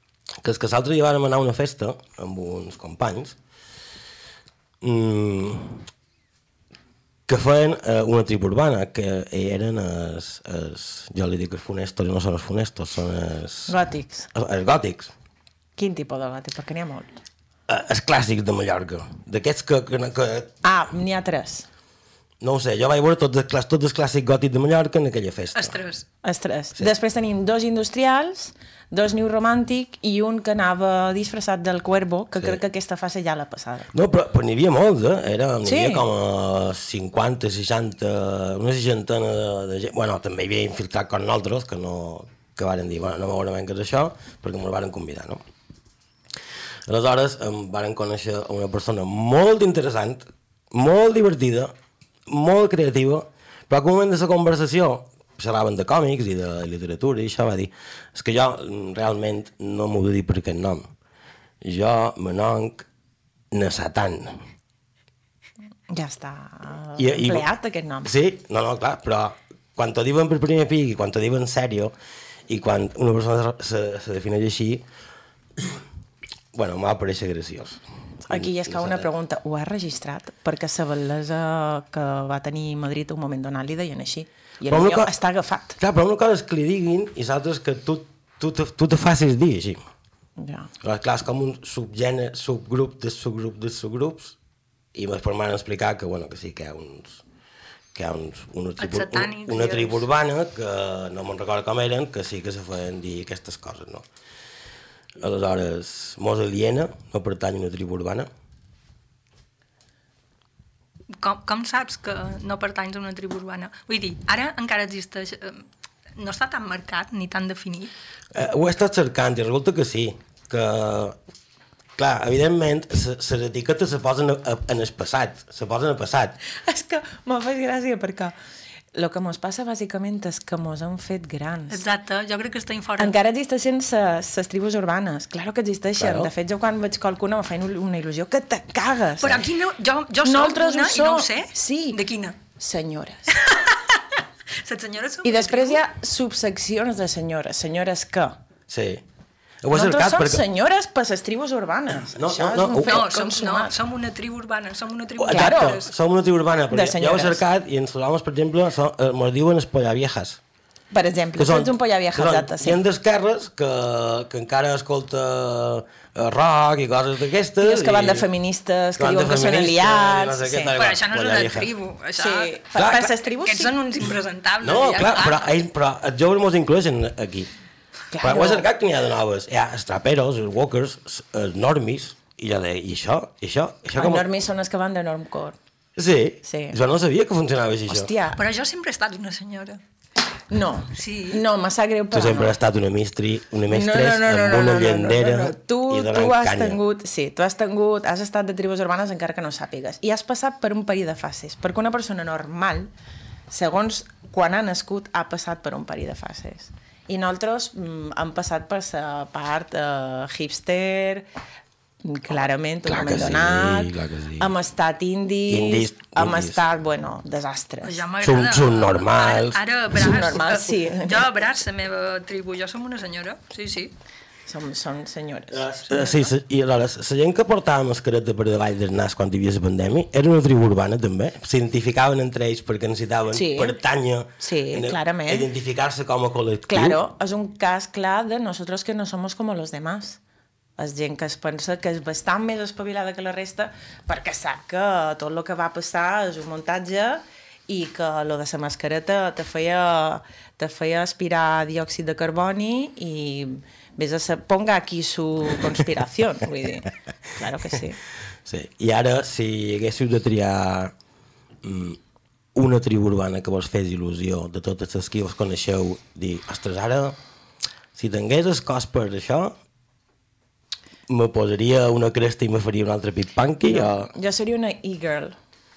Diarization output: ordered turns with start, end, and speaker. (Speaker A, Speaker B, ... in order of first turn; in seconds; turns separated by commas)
Speaker A: 0.4-3.4, Speaker A: 4.8-5.8, Speaker A: 7.3-13.8, Speaker B: 13.7-14.3, Speaker A: 14.3-15.1, Speaker B: 15.8-17.2, Speaker A: 17.7-20.5, Speaker B: 20.6-21.7, Speaker A: 22.4-25.8, Speaker C: 25.5-26.1, Speaker B: 26.2-33.9, Speaker A: 33.9-45.4, Speaker B: 35.6-36.0, Speaker A: 46.9-51.7, Speaker A: 52.3-60.9, Speaker A: 61.6-62.9, Speaker A: 63.5-64.4, Speaker B: 65.9-68.1, Speaker A: 67.0-67.5, Speaker A: 68.0-71.9, Speaker A: 72.5-74.8, Speaker A: 76.5-79.1, Speaker B: 78.2-85.8, Speaker A: 84.7-85.1, Speaker A: 85.8-89.9, Speaker B: 90.4-90.7, Speaker A: 90.8-94.4, Speaker A: 94.9-97.2, Speaker A: 97.9-104.0, Speaker C: 98.8-100.0, Speaker A: 105.2-108.3, Speaker C: 111.1-115.6, Speaker C: 116.2-117.9, Speaker A: 118.3-121.2, Speaker A: 122.0-126.4, Speaker B: 126.6-128.3, Speaker B: 128.9-131.8, Speaker C: 131.7-133.2, Speaker B: 133.0-139.4, Speaker A: 136.0-136.3, Speaker C: 139.2-142.3, Speaker B: 140.2-142.0, Speaker B: 142.6-143.5, Speaker C: 143.4-144.0, Speaker C: 144.6-145.8, Speaker B: 145.2-148.4, Speaker A: 148.7-149.0, Speaker A: 149.6-150.5, Speaker B: 149.7-153.7, Speaker A: 152.0-152.9, Speaker C: 152.8-155.9, Speaker A: 155.2-160.4, Speaker B: 155.3-155.8, Speaker B: 156.7-157.4, Speaker B: 160.9-162.8, Speaker A: 161.4-168.3, Speaker B: 167.6-170.7, Speaker A: 169.0-171.7, Speaker C: 170.8-172.6, Speaker B: 172.2-173.7, Speaker A: 172.7-173.1, Speaker C: 173.4-175.4, Speaker A: 174.6-177.5, Speaker B: 178.1-178.6, Speaker A: 178.2-184.3, Speaker B: 183.9-185.6, Speaker A: 185.9-188.1, Speaker B: 186.4-186.8, Speaker B: 187.9-188.4, Speaker C: 188.3-189.8, Speaker B: 190.5-192.6, Speaker C: 190.9-191.4, Speaker A: 192.1-196.8, Speaker B: 193.7-202.9, Speaker B: 203.5-211.2, Speaker B: 212.0-218.0, Speaker A: 212.8-214.5, Speaker A: 215.5-216.6, Speaker C: 217.8-223.9, Speaker A: 218.2-219.6, Speaker B: 219.9-221.2, Speaker B: 224.5-225.7, Speaker A: 225.5-237.0, Speaker C: 226.0-226.2, Speaker B: 233.3-233.7, Speaker B: 234.4-235.5, Speaker B: 236.7-240.2, Speaker B: 240.8-258.0, Speaker A: 258.4-260.9, Speaker A: 261.6-262.0, Speaker A: 262.5-267.1, Speaker A: 267.9-269.5, Speaker A: 271.1-274.1, Speaker B: 273.6-275.4